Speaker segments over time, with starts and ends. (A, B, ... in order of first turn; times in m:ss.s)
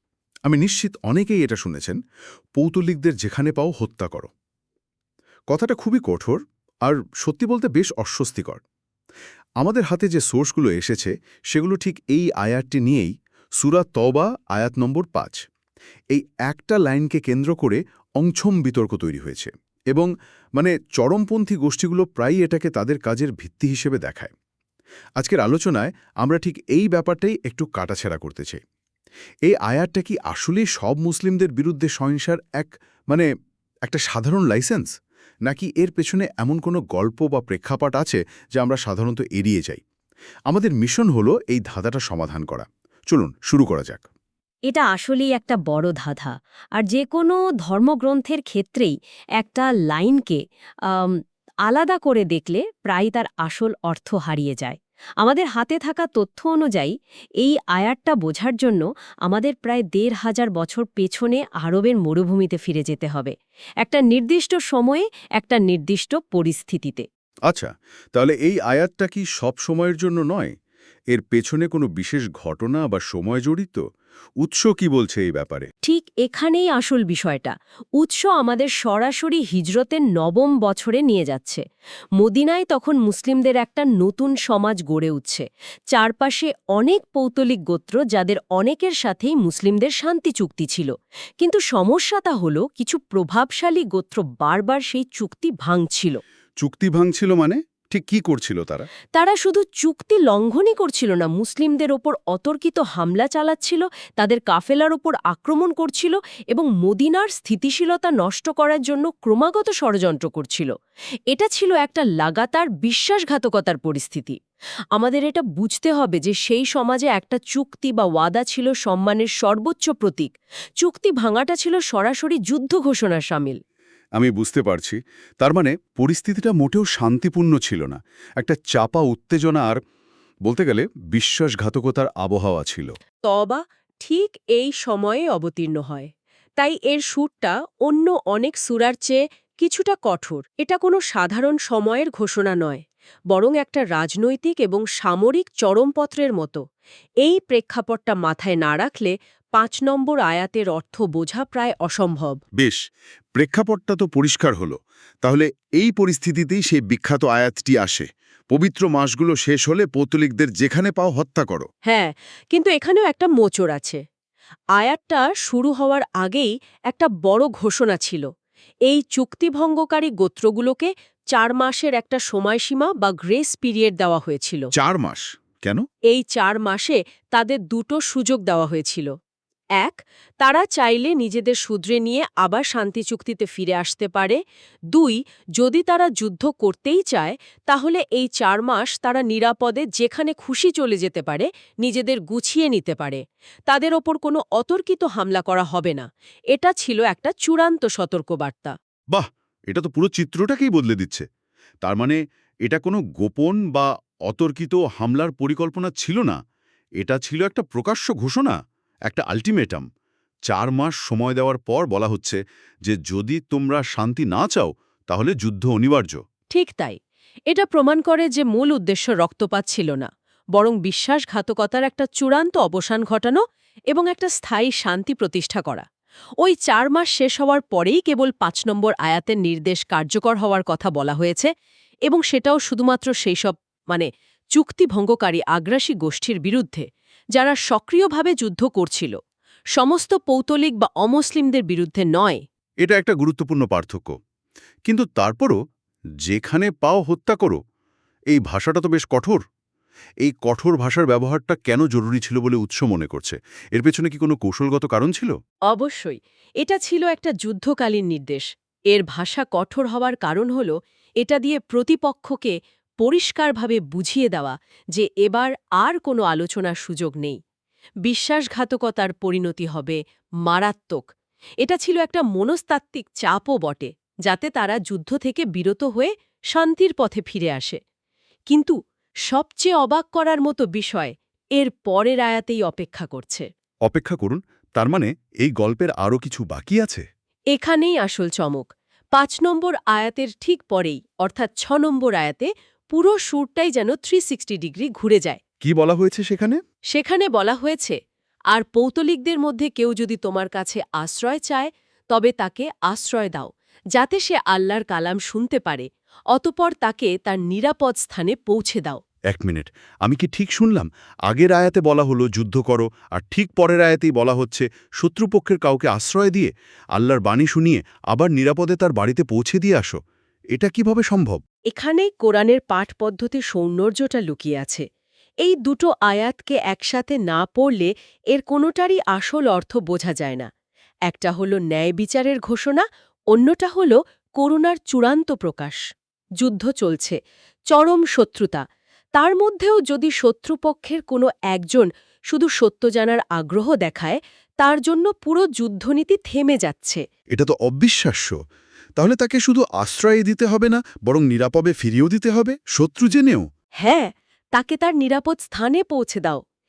0:00.5-0:02.0 A
0:02.6-0:04.3 A
0:05.5-0:08.6 A
0:09.6-0:15.4 A
0:16.1-0:24.3 A
0:25.2-0:28.6 A
0:29.5-0:33.2 A
0:33.9-0:34.9 A
0:35.5-0:39.8 A
0:40.5-0:44.0 A
0:44.7-1:07.0 B
1:07.5-1:10.5 A
1:11.1-1:13.8 A
1:14.4-1:15.7 A
1:15.8-1:21.6 B
1:22.2-1:36.2 B
1:36.6-1:38.9 A
1:39.2-1:50.7 B
1:51.3-1:54.4 B
1:54.9-2:03.6 B
2:04.2-2:09.8 A
2:10.4-2:13.0 A
2:13.3-2:26.6 B
2:27.2-2:32.4 B
2:32.6-2:32.8 A
2:33.4-2:41.7 A
2:41.9-2:44.0 B
2:44.8-2:48.3 B
2:48.9-2:54.7 B
2:54.7-2:55.8 A
2:56.1-2:59.1 B
2:59.8-3:04.4 B
3:04.9-3:18.8 B
3:19.1-3:21.2 A
3:21.8-3:26.4 A
3:27.0-3:28.6 A
3:29.1-3:29.9 A
3:30.5-3:36.2 A
3:36.5-3:37.0 B
3:37.5-3:45.8 B
3:46.4-3:51.5 B
3:52.1-3:59.2 B
3:59.8-4:02.4 B
4:02.8-4:04.2 A
4:04.9-4:05.6 A
4:06.2-4:07.6 A
4:08.3-4:09.4 A
4:10.2-4:15.3 A
4:15.7-4:27.4 B
4:28.0-4:31.1 B
4:31.6-4:37.8 B
4:38.5-4:38.8 B
4:39.3-4:43.5 B
4:43.9-4:47.0 A
4:47.5-4:55.4 B
4:55.6-4:56.6 A
4:56.9-4:58.0 B
4:58.5-5:09.0 B
5:09.3-5:20.0 A
5:20.6-5:21.4 A
5:21.7-5:24.8 B
5:25.4-5:30.5 B
5:31.1-5:35.8 B
5:36.4-5:37.2 B
5:37.7-5:38.6 B
5:39.2-5:47.0 B
5:47.3-5:48.4 A
5:49.0-5:53.5 A
5:53.8-5:56.4 B